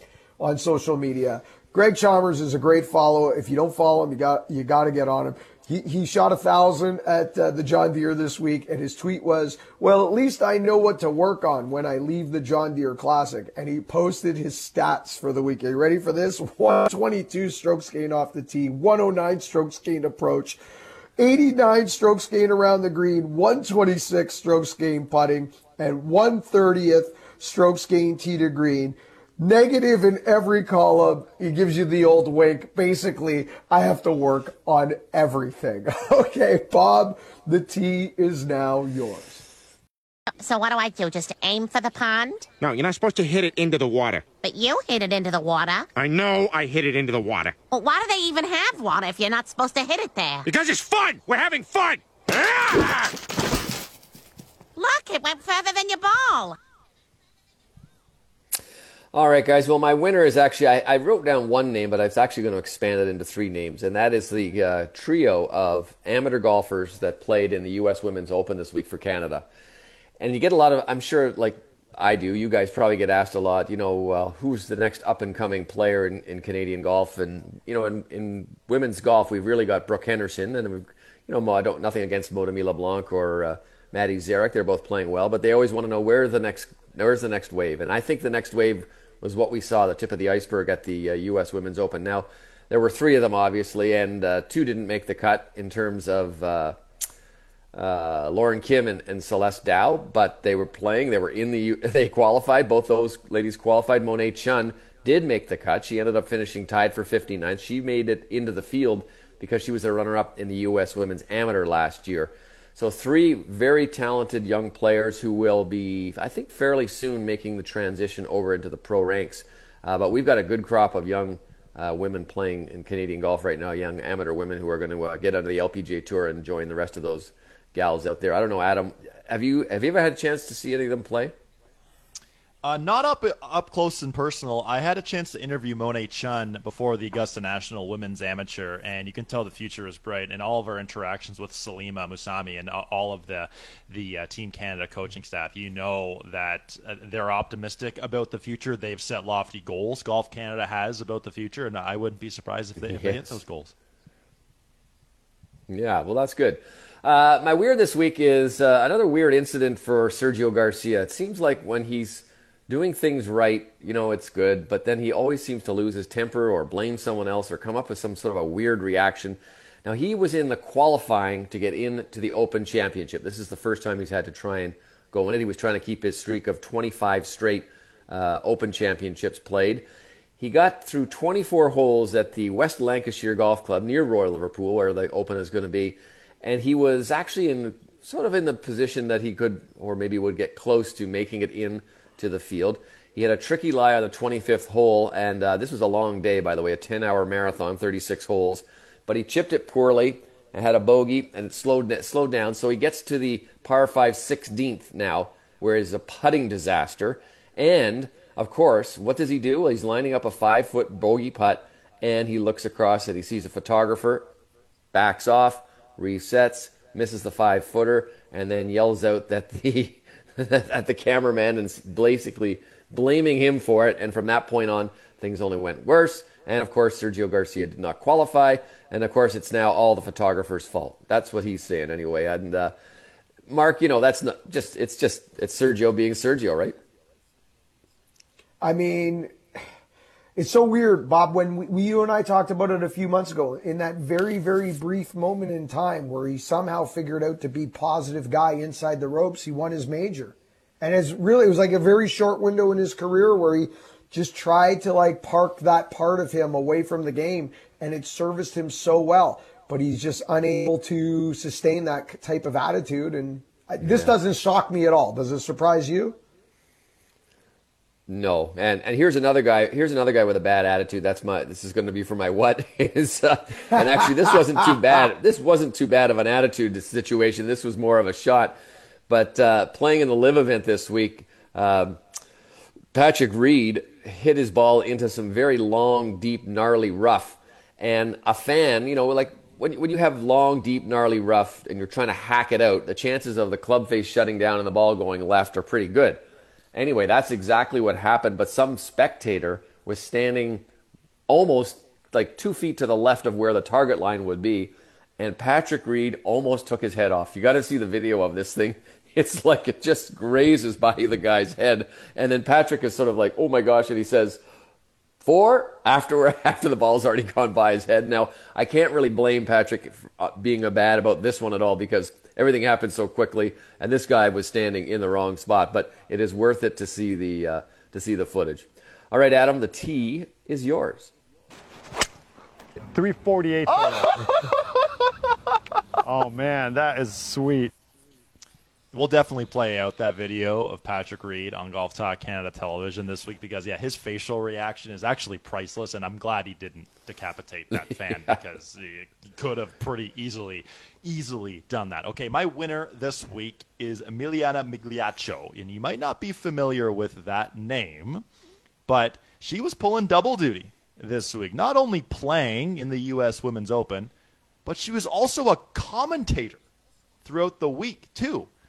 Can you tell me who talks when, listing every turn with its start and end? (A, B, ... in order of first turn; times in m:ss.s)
0:00.4-0:20.6 A
0:21.2-0:39.4 A
0:40.4-0:42.5 B
0:42.6-0:44.3 C
0:44.4-0:45.9 B
0:46.0-0:47.6 C
0:47.7-0:50.4 B
0:50.4-0:53.1 C
0:54.8-0:56.6 B
0:59.1-1:09.4 D
1:10.2-1:36.8 D
1:37.7-2:11.3 D
2:12.6-2:33.7 E
2:32.8-2:33.4 D
2:35.7-2:59.9 D
3:00.4-3:34.3 D
3:34.9-3:52.7 D
3:53.5-3:56.8 D
3:58.6-3:59.4 A
4:00.4-4:26.2 A
4:23.8-4:24.1 D
4:28.1-4:38.6 D
4:39.1-4:42.0 D
4:42.9-4:56.2 D
4:56.7-5:00.6 D
5:01.3-5:14.4 D
5:15.2-5:31.1 D
5:32.9-5:34.4 F
5:36.0-5:37.7 F
5:38.9-5:58.2 E
5:58.9-6:04.1 E
6:04.6-6:06.6 E
6:07.2-6:08.5 E